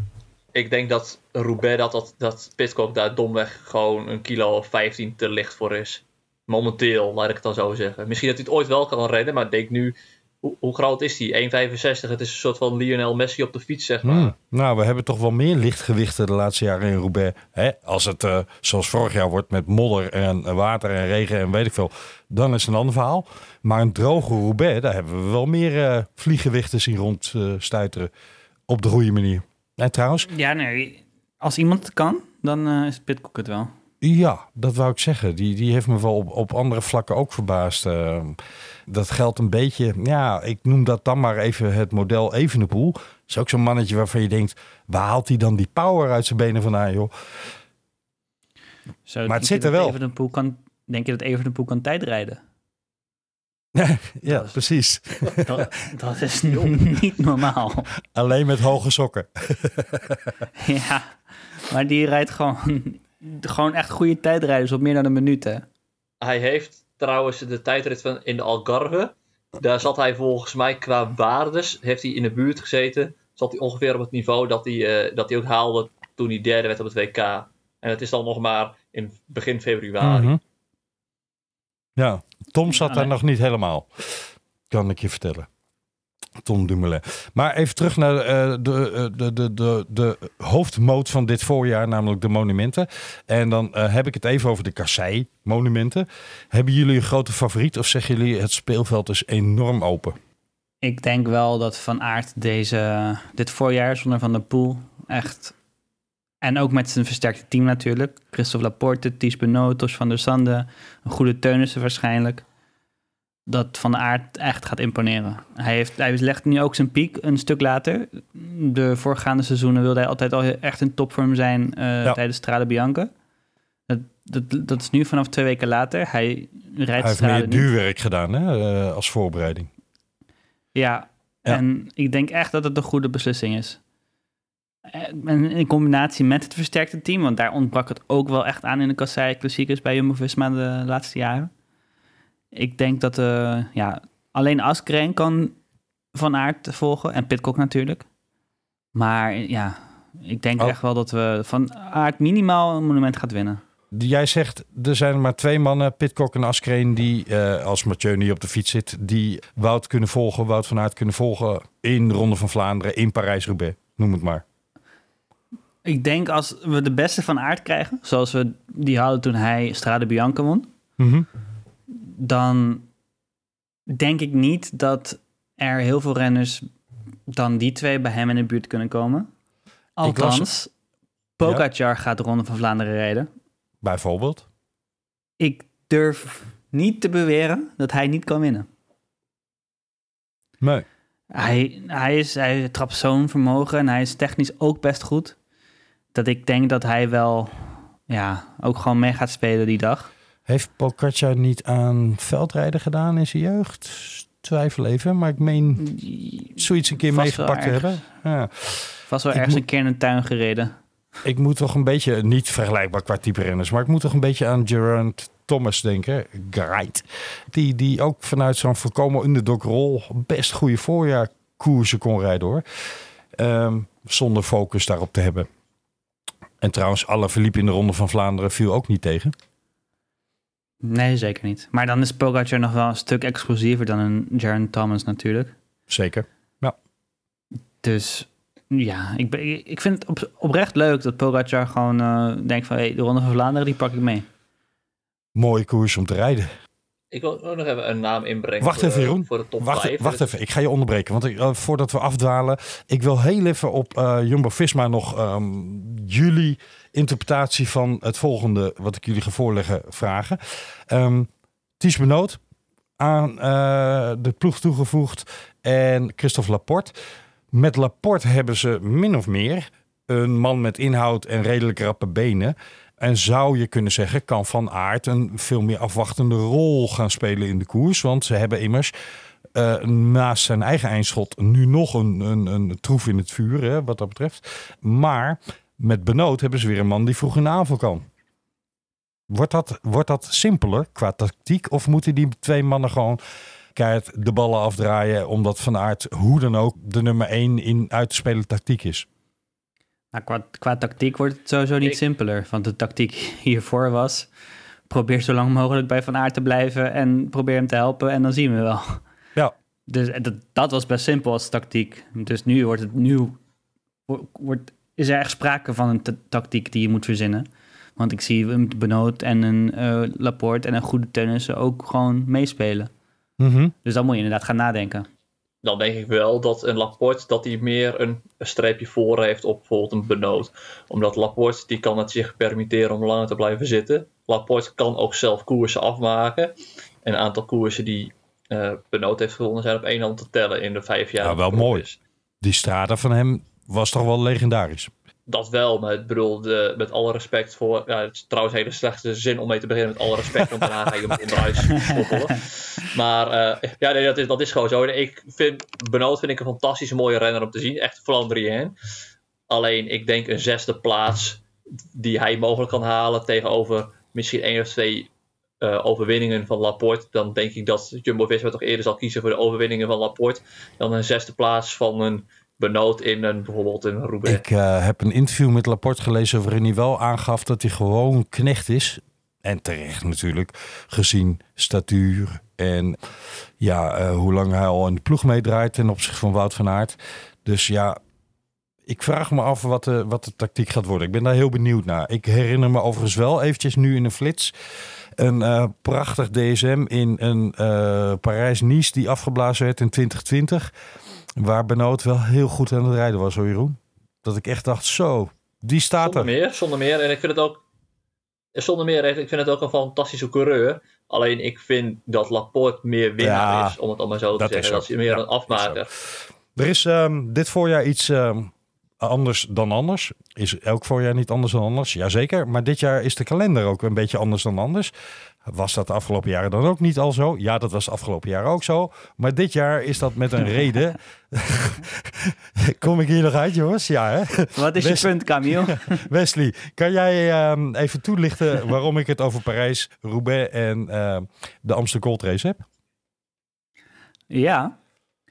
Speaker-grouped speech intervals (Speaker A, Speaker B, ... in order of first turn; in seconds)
Speaker A: 0.5-14.3, 56.5-56.8, 66.2-80.4, 247.1-250.3, 325.6-336.5, 337.1-342.0, 345.3-358.8, 359.5-365.1, 365.6-374.4, 406.0-407.6, 408.6-415.9
Speaker B: 14.0-28.1, 28.7-30.3, 34.0-47.5, 49.3-50.0, 53.8-55.7, 58.1-60.4, 80.0-80.4, 82.0-85.5, 86.4-100.2, 127.0-129.7, 153.9-164.4, 171.0-171.3, 180.0-180.5, 183.8-184.4, 190.6-190.9, 200.5-205.8, 206.6-209.6, 211.2-225.5, 226.6-229.3, 235.9-236.8, 245.4-246.5, 248.6-262.4, 263.0-266.9, 267.5-278.9, 279.6-288.1, 289.3-293.2, 293.8-299.1, 323.4-323.7, 341.2-341.9, 342.4-344.9, 374.2-383.0, 383.6-388.0, 388.9-394.5, 395.2-400.7, 401.4-406.3, 413.2-413.8, 414.4-424.9, 425.4-442.6
Speaker C: 30.3-33.7, 49.1-52.4, 54.2-54.6, 55.4-57.9, 60.6-65.7, 82.7-83.1, 100.8-105.5, 106.4-112.5, 113.5-123.1, 123.9-127.7, 130.8-133.8, 134.9-141.5, 142.5-145.6, 146.1-148.1, 148.9-153.6, 165.8-170.7, 171.9-172.9, 173.9-176.7, 177.3-179.3, 180.0-180.7, 181.4-183.3, 185.4-188.7, 191.3-195.4, 196.1-200.1, 205.8-208.0, 209.1-210.8, 230.8-235.5, 237.8-244.3, 300.1-304.3, 304.9-309.1, 309.9-313.4, 314.1-322.9, 323.8-325.1, 434.6-436.1, 444.3-444.8